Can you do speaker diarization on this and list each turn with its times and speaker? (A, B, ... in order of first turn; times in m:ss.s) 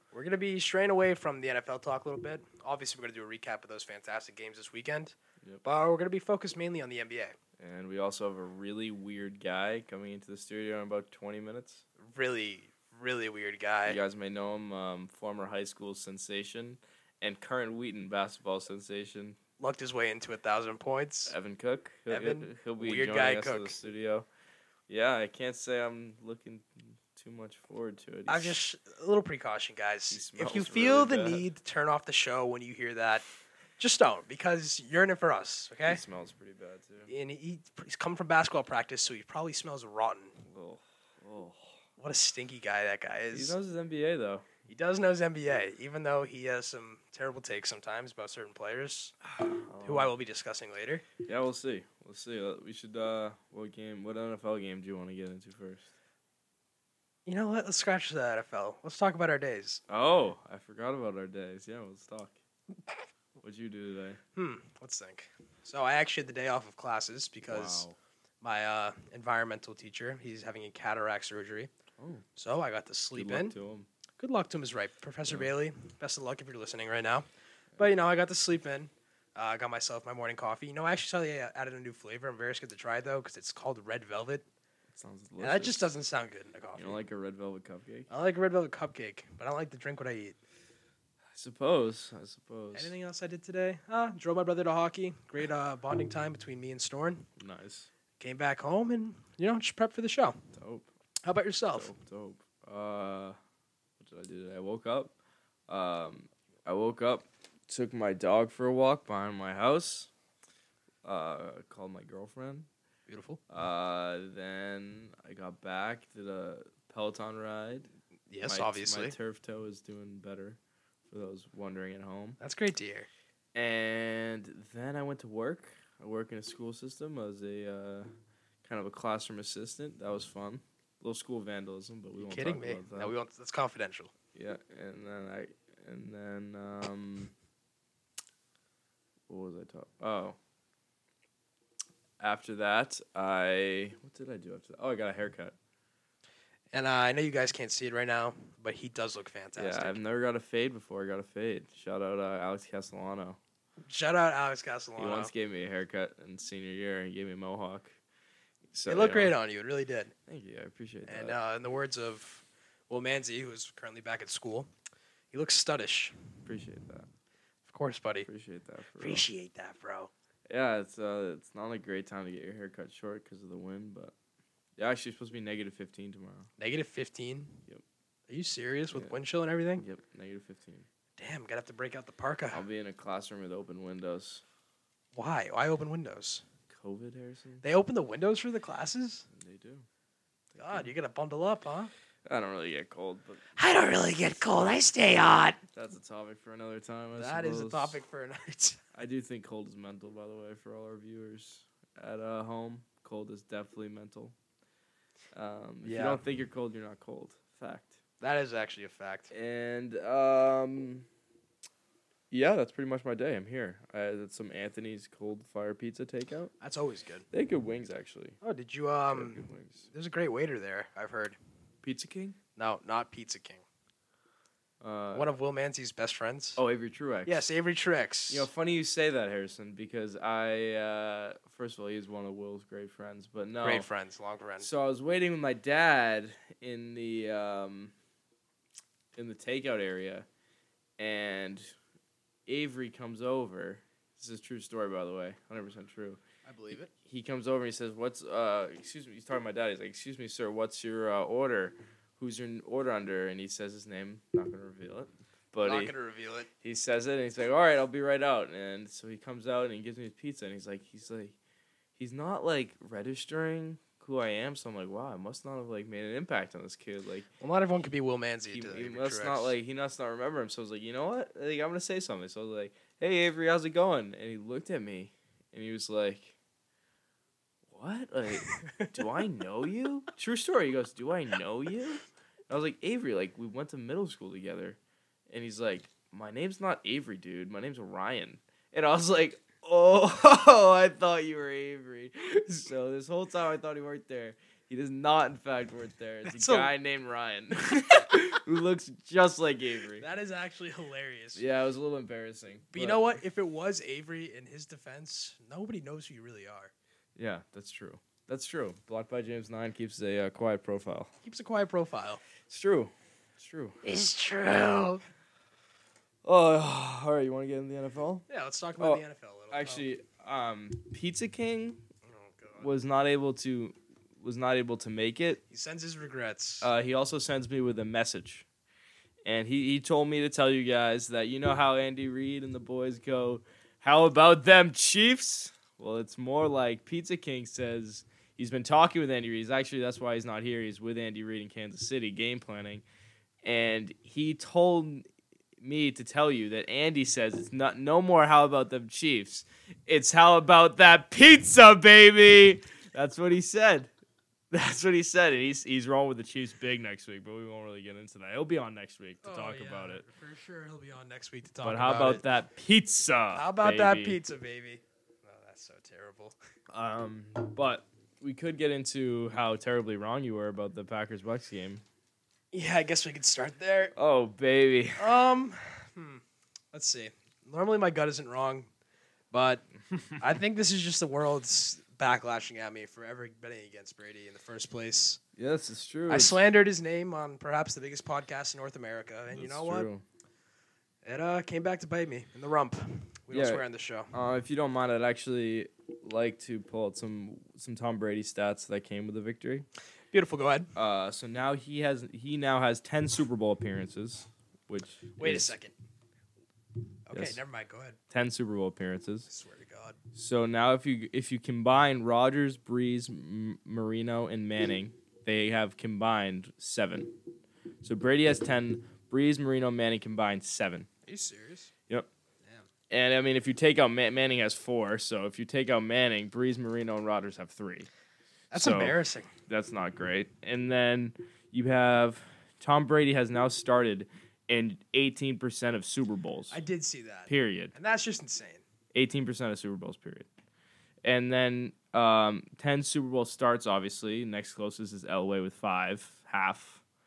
0:00.1-0:07.4 A
0:07.6-0:11.8 B
0:12.0-0:14.0 A
0:13.9-0:19.4 B
0:19.6-0:21.3 A
0:21.3-0:24.3 B
0:22.1-0:23.8 A
0:24.9-0:28.6 B
0:28.3-0:33.2 A
0:30.1-0:31.4 B
0:33.8-0:36.0 A
0:35.8-0:37.1 B
0:37.1-0:40.4 A
0:40.5-0:41.7 B
0:42.0-0:43.6 A
0:43.3-0:44.5 B
0:44.7-0:49.2 A
0:49.3-0:50.1 B
0:49.8-0:51.0 A
0:51.2-0:55.9 B
0:57.3-0:59.8 A
0:59.9-1:02.4 B
1:03.4-1:04.2 B
1:04.4-1:07.8 A
1:07.4-1:08.0 B
1:08.4-1:11.7 A
1:12.0-1:12.2 B
1:12.4-1:13.5 A
1:13.1-1:13.9 B
1:14.2-1:17.3 A
1:17.8-1:24.4 A
1:24.9-1:25.9 B
1:25.4-1:27.0 A
1:26.8-1:28.1 B
1:28.1-1:30.4 A
1:31.3-1:32.9 B
1:32.8-1:37.3 A
1:37.4-1:37.9 B
1:38.2-1:40.4 A
1:40.6-1:40.9 B
1:41.2-1:41.9 A
1:41.7-1:43.4 B
1:44.0-1:45.1 B
1:45.7-1:50.1 B
1:51.0-1:52.7 B
1:53.1-1:53.4 A
1:53.5-1:57.9 B
1:58.3-1:59.2 A
1:58.4-2:00.6 B
2:01.1-2:02.4 B
2:02.4-2:03.1 A
2:03.5-2:08.1 B
2:08.6-2:13.1 B
2:12.2-2:14.1 A
2:14.3-2:17.3 B
2:19.3-2:20.4 B
2:22.2-2:25.6 B
2:26.7-2:30.0 A
2:29.6-2:33.4 B
2:33.9-2:35.3 A
2:35.0-2:38.0 B
2:38.7-2:39.4 B
2:38.9-2:40.1 A
2:40.3-2:41.4 B
2:41.1-2:44.7 A
2:45.3-2:46.2 A
2:46.5-2:47.1 B
2:47.7-2:48.3 A
2:48.3-2:49.3 B
2:49.0-2:50.1 A
2:50.5-2:54.1 B
2:54.8-2:56.5 B
2:56.6-2:57.6 A
2:58.3-2:59.8 A
2:59.8-3:00.9 B
3:01.2-3:02.6 A
3:02.5-3:04.4 B
3:05.2-3:06.4 A
3:06.7-3:07.6 B
3:07.6-3:09.3 A
3:09.3-3:09.9 B
3:10.6-3:11.9 A
3:12.3-3:13.4 B
3:13.6-3:15.6 A
3:15.7-3:18.0 B
3:17.2-3:18.8 A
3:18.9-3:24.3 B
3:25.3-3:28.0 B
3:25.8-3:26.2 A
3:28.2-3:29.3 A
3:29.3-3:31.1 B
3:32.3-3:36.5 B
3:36.6-3:37.3 A
3:37.3-3:38.4 B
3:38.4-3:41.4 A
3:39.1-3:39.9 B
3:41.8-3:42.4 B
3:42.6-3:43.6 A
3:44.8-3:45.3 B
3:45.1-3:46.6 A
3:46.6-3:47.4 B
3:47.3-3:48.5 A
3:48.3-3:53.9 B
3:53.6-3:54.7 A
3:54.6-3:57.9 B
3:59.2-4:00.3 B
4:01.0-4:01.7 B
4:02.5-4:06.2 B
4:06.4-4:06.9 A
4:07.0-4:15.9 B
4:15.6-4:16.5 A
4:16.6-4:21.4 B
4:22.0-4:27.3 B
4:27.4-4:29.5 A
4:28.5-4:36.4 B
4:37.7-4:44.8 B
4:38.4-4:38.9 A
4:45.3-5:00.0 B
4:56.3-4:56.7 A
5:00.0-5:01.4 A
5:01.4-5:03.1 B
5:02.7-5:06.7 A
5:07.2-5:11.1 B
5:11.2-5:12.2 A
5:12.5-5:13.8 B
5:13.8-5:15.0 A
5:16.2-5:18.3 B
5:18.3-5:19.8 A
5:18.8-5:21.8 B
5:22.1-5:22.7 A
5:22.6-5:25.4 B
5:25.5-5:26.7 A
5:26.6-5:28.5 B
5:29.2-5:42.8 B
5:43.4-5:45.0 B
5:45.6-5:53.9 B
5:54.5-6:00.0 B
5:59.2-6:02.2 A
6:01.6-6:04.2 B
6:03.3-6:06.4 A
6:06.7-6:11.8 B
6:12.5-6:13.9 A
6:14.0-6:15.2 B
6:15.0-6:16.2 A
6:16.7-6:18.7 A
6:19.3-6:25.2 A
6:25.4-6:26.4 B
6:26.1-6:29.9 A
6:29.3-6:30.0 B
6:31.0-6:34.1 A
6:33.3-6:39.7 B
6:40.1-6:40.7 A
6:40.8-6:45.5 B
6:45.2-6:45.7 A
6:47.1-6:48.0 A
6:47.1-6:47.4 B
6:48.1-6:49.3 B
6:49.3-6:50.0 A
6:50.1-6:57.2 B
6:57.8-7:00.9 B
7:01.1-7:01.7 A
7:02.9-7:07.9 B
7:08.5-7:09.3 A
7:08.5-7:09.0 B
7:09.5-7:16.6 B
7:16.5-7:18.6 A
7:17.3-7:17.7 B
7:18.9-7:20.3 B
7:21.0-7:26.8 B